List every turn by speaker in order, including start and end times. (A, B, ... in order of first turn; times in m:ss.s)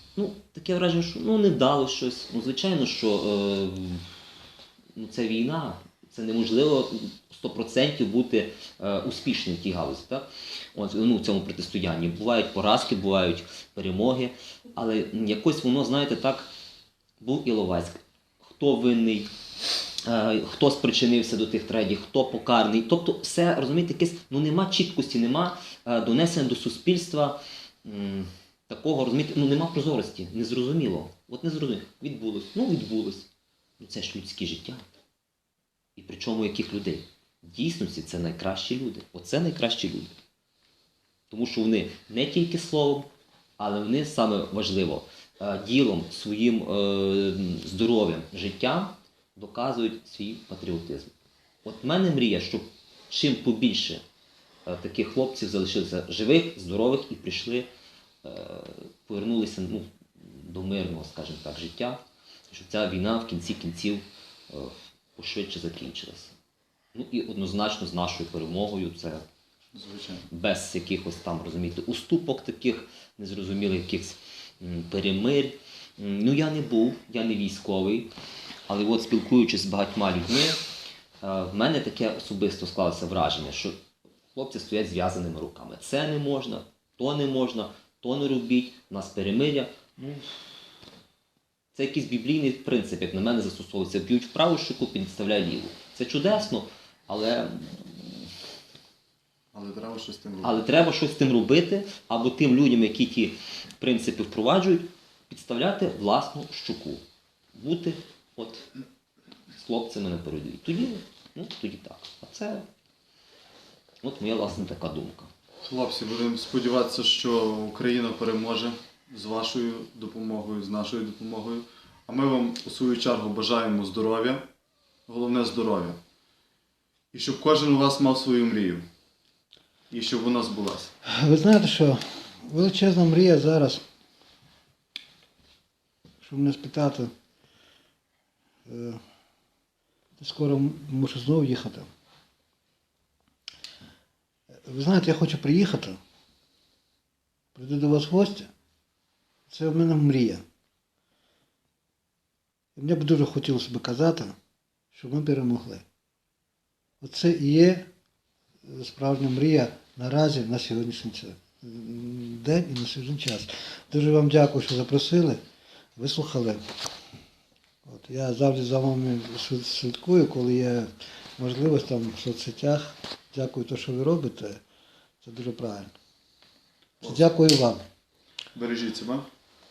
0:00.2-0:04.1 A
0:05.0-0:16.5 A
0:17.2-0:19.3 A
0:20.0-0:33.3 A
0:33.8-0:34.8 A
0:36.0-0:40.1 A
0:41.3-0:43.1 A
0:43.6-0:51.1 A
0:51.6-0:54.0 A
0:54.7-0:57.7 A
0:58.2-1:06.3 A
1:06.9-1:09.2 A
1:09.7-1:10.3 B
1:10.3-1:18.1 A
1:18.7-1:20.6 A
1:21.2-1:23.8 A
1:24.3-1:30.3 A
1:31.7-1:38.2 A
1:39.5-1:40.6 B
1:40.4-1:47.0 A
1:47.6-1:48.7 A
1:49.5-1:52.7 A
1:54.0-1:55.3 A
1:55.6-2:04.5 B
2:05.1-2:06.0 B
2:07.1-2:08.8 B
2:09.9-2:10.9 B
2:11.0-2:13.8 C
2:16.2-2:17.1 C
2:18.7-2:19.0 C
2:20.2-2:21.9 C
2:24.5-2:26.0 C
2:27.6-2:28.5 C
2:29.5-2:30.4 C
2:32.8-2:34.4 C
2:34.9-2:35.8 C
2:37.0-2:37.9 C
2:38.6-2:45.4 C
2:46.0-2:46.6 C
2:47.8-2:54.6 C
2:55.2-2:55.9 C
2:57.0-2:57.8 C
2:58.5-2:59.3 B